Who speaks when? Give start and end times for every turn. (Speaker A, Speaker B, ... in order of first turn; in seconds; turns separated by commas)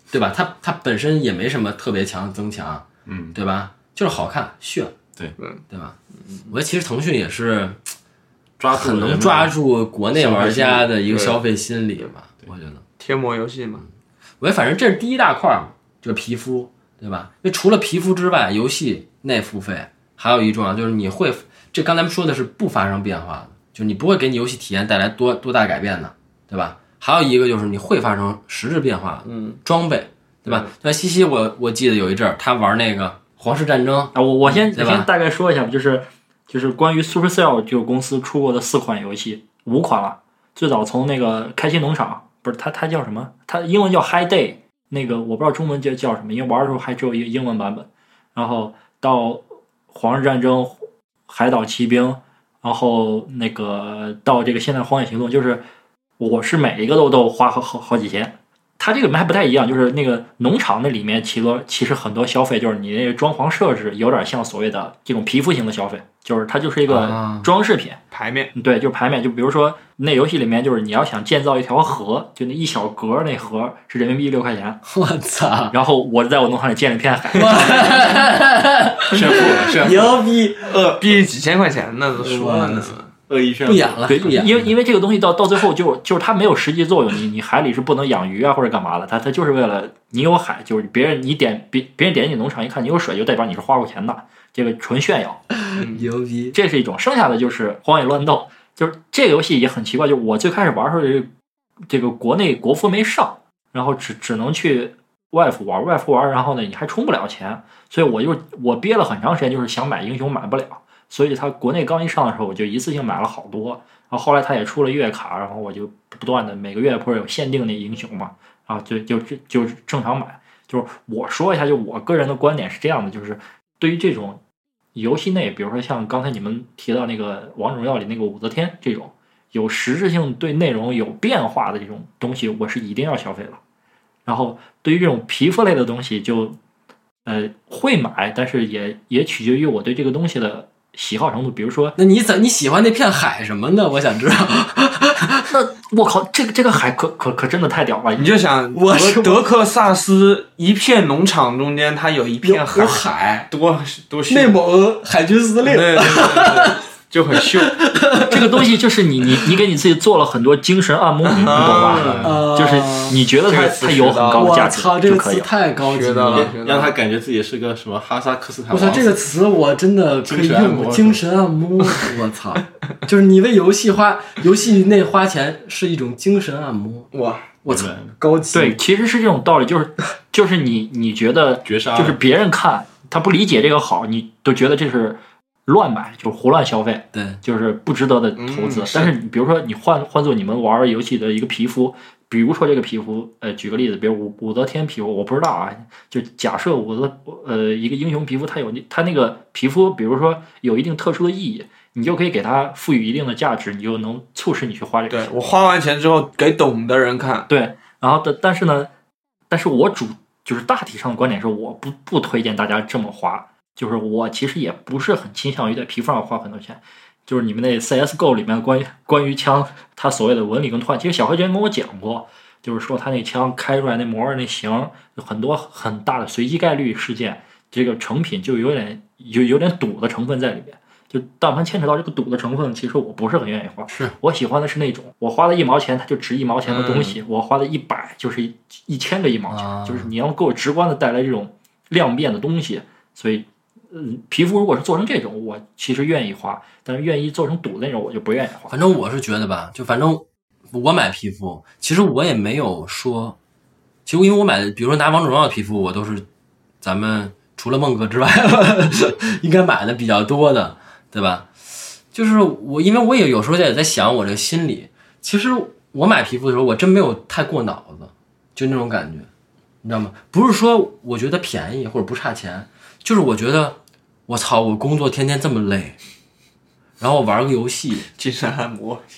Speaker A: 0.1-5.0, Speaker B: 3.1-3.4, Speaker A: 5.7-6.0, Speaker C: 6.2-6.5, Speaker A: 6.5-7.8, Speaker B: 8.6-9.6, Speaker A: 8.7-12.8, Speaker C: 10.2-11.4, Speaker C: 13.0-13.8, Speaker A: 14.4-35.1, Speaker C: 29.2-29.6, Speaker C: 30.4-30.7, Speaker D: 34.1-55.6, Speaker D: 56.2-68.0, Speaker A: 66.9-67.5, Speaker C: 68.1-68.5, Speaker D: 68.5-74.8, Speaker A: 74.8-75.8, Speaker D: 75.7-78.2, Speaker A: 77.3-80.7, Speaker B: 79.1-81.2, Speaker C: 81.0-83.1, Speaker A: 82.2-83.0, Speaker B: 83.3-84.7, Speaker A: 83.7-84.6, Speaker D: 84.1-95.5, Speaker A: 95.7-96.6, Speaker C: 95.8-96.1, Speaker D: 96.5-101.3, Speaker D: 101.9-124.4, Speaker D: 124.9-133.6, Speaker D: 134.3-136.6, Speaker D: 137.2-142.0, Speaker A: 142.0-145.5, Speaker D: 145.5-148.3, Speaker C: 148.2-154.6, Speaker A: 148.7-149.4, Speaker A: 152.4-153.5, Speaker A: 154.3-156.8, Speaker C: 155.7-157.9, Speaker A: 157.4-158.7, Speaker D: 158.3-165.5, Speaker C: 161.2-162.4, Speaker B: 161.4-162.4, Speaker A: 162.2-163.2, Speaker C: 163.4-164.6, Speaker A: 164.3-166.5, Speaker C: 165.8-167.0, Speaker B: 166.3-169.2, Speaker A: 168.7-177.1, Speaker B: 170.2-171.2, Speaker C: 177.1-177.5, Speaker A: 177.6-178.8, Speaker B: 177.7-178.2, Speaker D: 178.5-205.3, Speaker B: 181.7-182.2, Speaker A: 187.1-187.4, Speaker C: 188.4-189.1, Speaker C: 205.1-207.5, Speaker D: 207.5-208.9, Speaker D: 209.5-248.8, Speaker C: 236.7-237.2, Speaker A: 239.5-240.1, Speaker A: 248.7-253.4, Speaker A: 254.1-256.3, Speaker A: 256.8-261.5, Speaker A: 262.1-269.3, Speaker A: 269.8-273.8, Speaker A: 274.3-276.0, Speaker A: 277.0-278.1, Speaker C: 278.2-279.0